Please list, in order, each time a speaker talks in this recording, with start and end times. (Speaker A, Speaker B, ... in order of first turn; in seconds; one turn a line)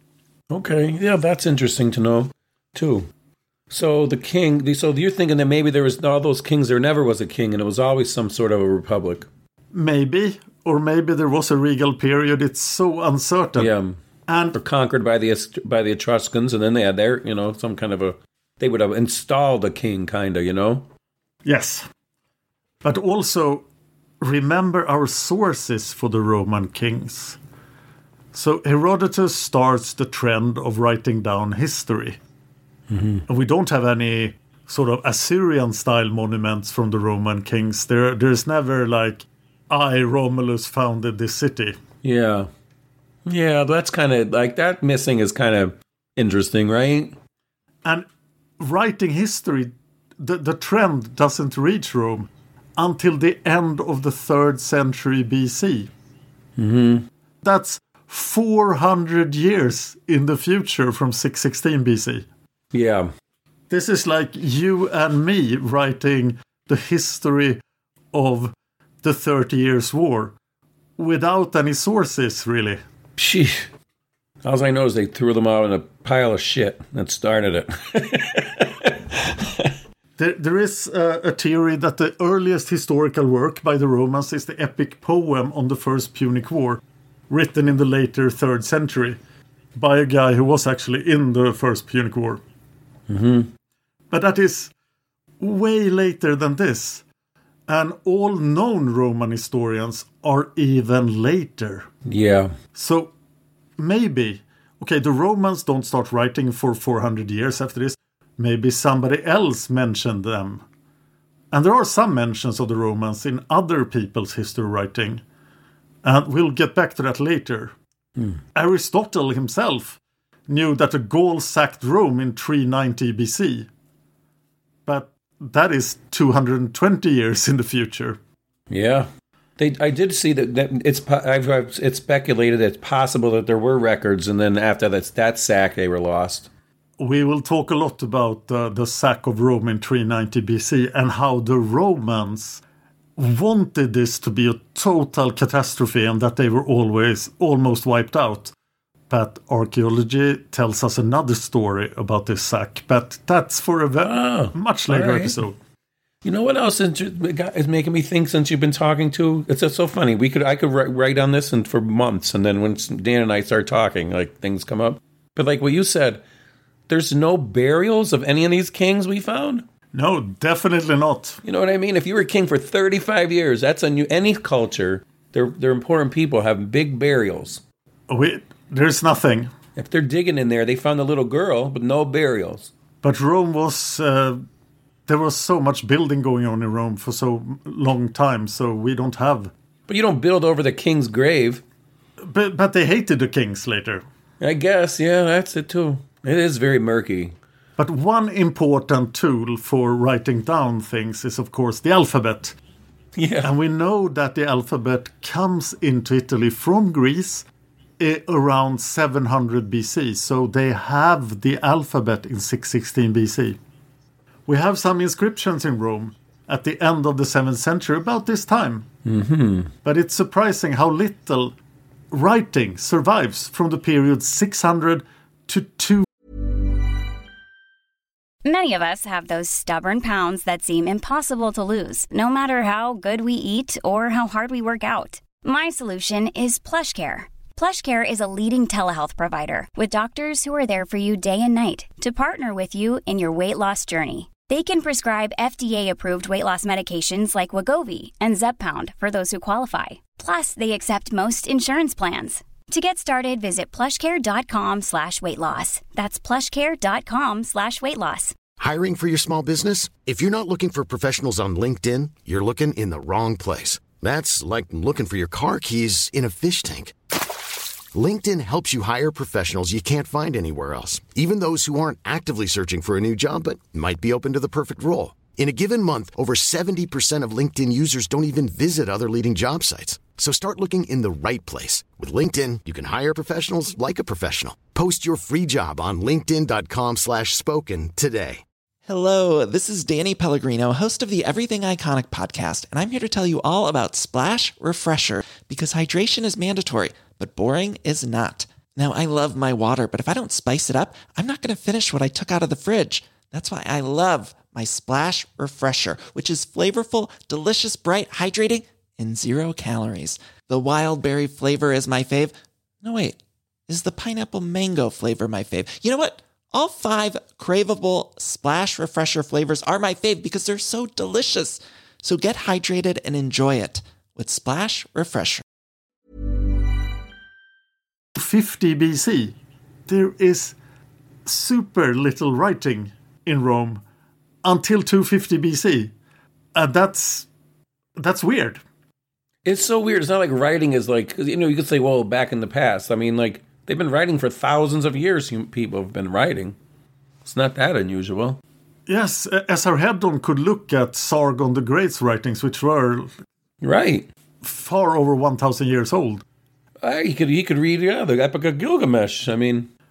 Speaker A: 0.5-3.1
Speaker A: 3.7-9.3
Speaker B: 9.7-13.7
Speaker A: 13.6-14.0
Speaker B: 14.3-14.6
Speaker A: 14.5-20.9
Speaker B: 21.4-21.9
Speaker B: 22.8-23.7
Speaker B: 24.2-27.4
Speaker B: 28.3-32.2
Speaker A: 32.9-33.2
Speaker B: 33.3-41.8
Speaker A: 42.0-42.5
Speaker A: 43.2-47.2
Speaker B: 48.6-55.9
Speaker A: 56.6-57.1
Speaker B: 57.4-62.2
Speaker A: 62.7-63.1
Speaker B: 63.7-67.6
Speaker B: 68.1-70.3
Speaker B: 71.0-72.8
Speaker A: 73.2-73.7
Speaker A: 74.4-79.7
Speaker B: 80.2-89.2
Speaker B: 89.8-92.4
Speaker A: 93.1-93.5
Speaker B: 94.1-94.7
Speaker B: 95.4-97.0
Speaker B: 97.7-101.9
Speaker A: 102.1-102.5
Speaker B: 102.8-103.1
Speaker B: 103.8-110.6
Speaker B: 111.5-115.2
Speaker B: 116.0-117.7
Speaker B: 118.5-123.7
Speaker B: 124.8-128.2
Speaker A: 128.7-136.5
Speaker B: 137.0-142.6
Speaker B: 143.2-148.5
Speaker B: 149.1-155.5
Speaker A: 154.0-155.4
Speaker A: 156.2-166.2
Speaker A: 166.9-169.6
Speaker B: 169.9-171.4
Speaker A: 171.4-177.6
Speaker B: 178.1-179.5
Speaker A: 179.8-182.7
Speaker B: 183.0-184.4
Speaker B: 185.1-189.5
Speaker A: 189.9-191.6
Speaker B: 192.2-194.0
Speaker A: 194.4-197.3
Speaker B: 197.8-202.6
Speaker A: 203.2-203.5
Speaker B: 203.4-207.5
Speaker B: 208.0-213.6
Speaker B: 214.5-218.9
Speaker A: 219.0-219.7
Speaker B: 219.8-221.5
Speaker B: 222.1-226.1
Speaker C: 228.4-258.3
Speaker D: 258.6-266.9
Speaker D: 267.9-288.4
Speaker E: 288.9-325.4
Speaker B: 328.2-329.3
Speaker B: 329.9-330.6
Speaker B: 331.2-333.8
Speaker B: 334.4-335.9
Speaker B: 336.5-337.3
Speaker B: 338.0-338.6
Speaker A: 339.4-346.6
Speaker A: 347.2-348.4
Speaker B: 348.9-353.1
Speaker A: 353.6-354.1
Speaker B: 354.4-356.2
Speaker A: 356.8-359.7